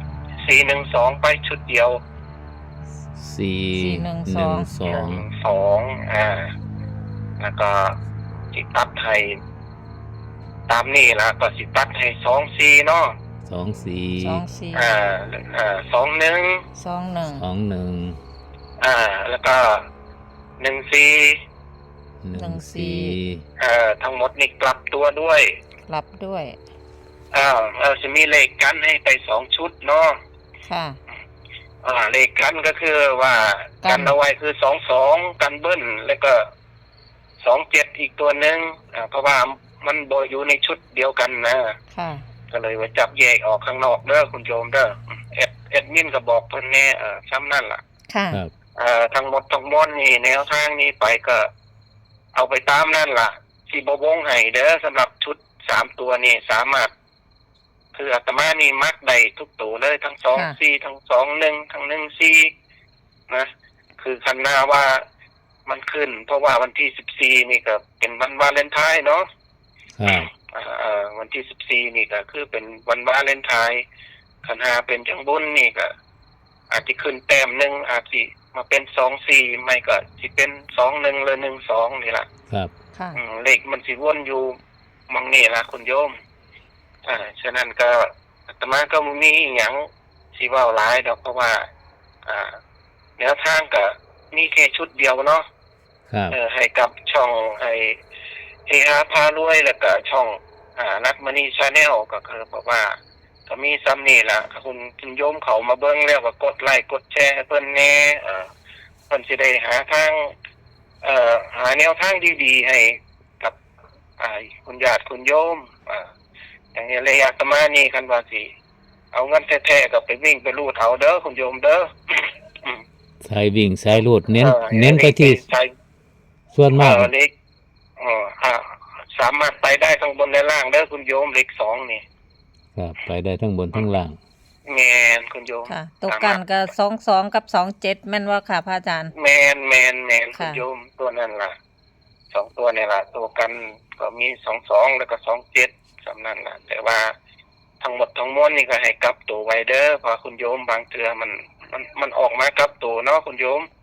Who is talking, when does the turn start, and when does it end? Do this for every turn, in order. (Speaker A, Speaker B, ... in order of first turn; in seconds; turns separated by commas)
Speaker A: 0.4-2.0, Speaker B: 3.1-5.2, Speaker C: 3.7-4.7, Speaker A: 4.8-6.5, Speaker A: 7.4-8.0, Speaker A: 8.5-9.4, Speaker A: 10.7-13.1, Speaker B: 13.5-14.4, Speaker C: 14.2-14.9, Speaker A: 14.7-16.6, Speaker C: 16.8-17.4, Speaker B: 17.4-18.2, Speaker A: 18.8-19.8, Speaker A: 20.6-21.4, Speaker B: 22.2-23.4, Speaker C: 22.3-23.2, Speaker A: 23.6-25.5, Speaker C: 25.9-26.6, Speaker A: 27.3-30.2, Speaker C: 30.7-31.0, Speaker A: 31.8-36.4, Speaker C: 33.8-34.1, Speaker A: 37.4-41.8, Speaker C: 41.9-42.2, Speaker A: 42.5-47.8, Speaker C: 48.1-48.4, Speaker A: 48.8-51.5, Speaker A: 52.3-56.9, Speaker A: 57.9-62.5, Speaker A: 63.3-65.0, Speaker A: 65.7-69.3, Speaker B: 70.0-70.3, Speaker A: 70.4-73.8, Speaker A: 74.4-75.9, Speaker A: 76.7-82.3, Speaker C: 82.9-83.2, Speaker A: 83.1-84.6, Speaker A: 85.1-86.1, Speaker A: 87.0-91.6, Speaker A: 92.2-92.6, Speaker A: 93.2-95.5, Speaker B: 96.1-96.4, Speaker A: 96.3-98.0, Speaker A: 98.7-103.0, Speaker A: 103.5-108.5, Speaker A: 109.1-110.3, Speaker A: 111.0-113.6, Speaker A: 114.2-116.1, Speaker A: 116.7-118.5, Speaker A: 119.1-122.8, Speaker B: 123.2-125.4, Speaker A: 124.3-125.7, Speaker B: 126.5-127.1, Speaker A: 126.7-127.3, Speaker A: 128.0-128.6, Speaker A: 129.1-132.0, Speaker B: 132.7-134.2, Speaker A: 134.7-136.4, Speaker C: 135.7-139.1, Speaker A: 139.1-141.5, Speaker C: 140.3-140.6, Speaker A: 142.3-147.1, Speaker A: 147.8-153.7